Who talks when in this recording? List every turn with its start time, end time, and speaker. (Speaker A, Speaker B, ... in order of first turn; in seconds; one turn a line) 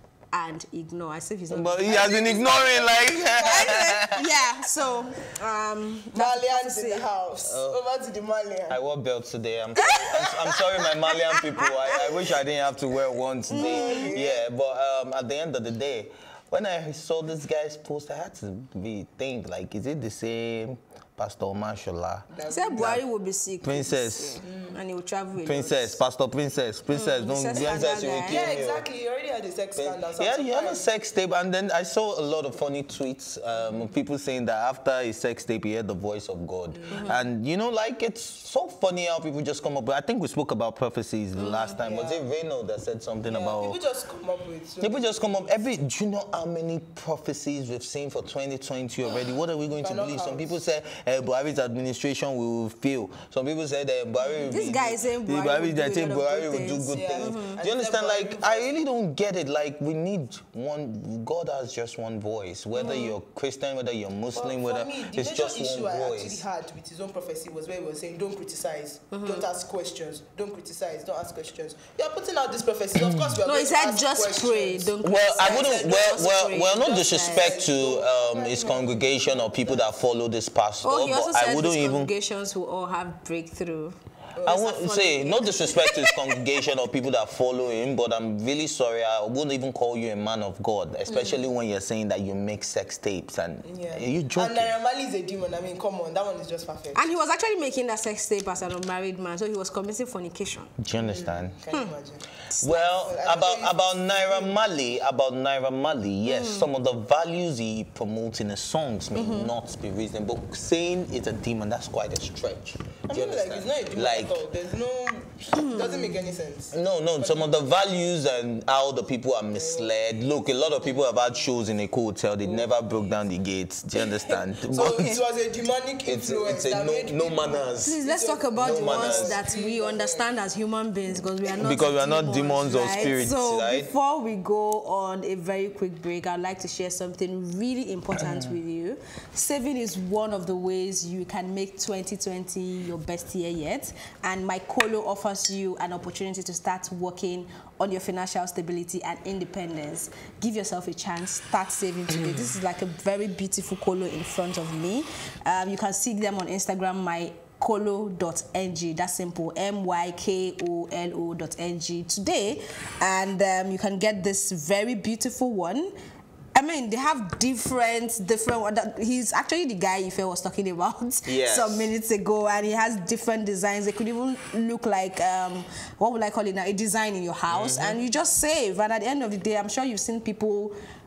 Speaker A: 0.3-2.4
Speaker B: 1.5-4.2
Speaker C: 1.9-3.9
Speaker A: 3.4-7.0
Speaker C: 6.1-8.8
Speaker B: 7.5-7.8
Speaker B: 8.7-23.0
Speaker A: 9.8-10.3
Speaker C: 9.9-10.3
Speaker A: 11.1-12.0
Speaker A: 13.5-14.1
Speaker C: 13.5-14.4
Speaker C: 22.3-23.0
Speaker A: 22.5-26.0
Speaker B: 23.6-24.4
Speaker C: 24.4-24.8
Speaker B: 25.4-28.9
Speaker A: 26.9-28.5
Speaker C: 28.2-30.9
Speaker B: 29.7-43.8
Speaker C: 36.7-37.2
Speaker A: 36.9-37.2
Speaker A: 41.4-41.8
Speaker C: 41.8-42.2
Speaker C: 43.2-45.5
Speaker B: 44.8-66.4
Speaker C: 49.2-50.6
Speaker C: 54.2-54.6
Speaker A: 54.5-57.6
Speaker C: 56.9-58.7
Speaker A: 62.7-63.1
Speaker C: 64.3-79.9
Speaker A: 69.1-69.5
Speaker A: 73.4-77.6
Speaker B: 75.0-82.1
Speaker A: 80.8-86.3
Speaker C: 84.3-84.6
Speaker B: 84.5-94.7
Speaker A: 91.1-91.4
Speaker C: 93.6-97.0
Speaker A: 96.9-100.7
Speaker B: 100.8-101.6
Speaker C: 101.0-104.5
Speaker B: 102.6-114.4
Speaker A: 106.2-106.7
Speaker A: 109.1-109.5
Speaker C: 113.1-117.5
Speaker A: 115.5-116.1
Speaker B: 116.7-125.2
Speaker C: 119.5-120.1
Speaker C: 120.8-121.1
Speaker C: 122.4-122.7
Speaker C: 124.0-130.3
Speaker B: 126.0-128.0
Speaker A: 127.8-165.9
Speaker B: 128.6-129.4
Speaker B: 131.6-133.9
Speaker A: 166.5-180.7
Speaker B: 171.2-171.9
Speaker B: 177.5-178.0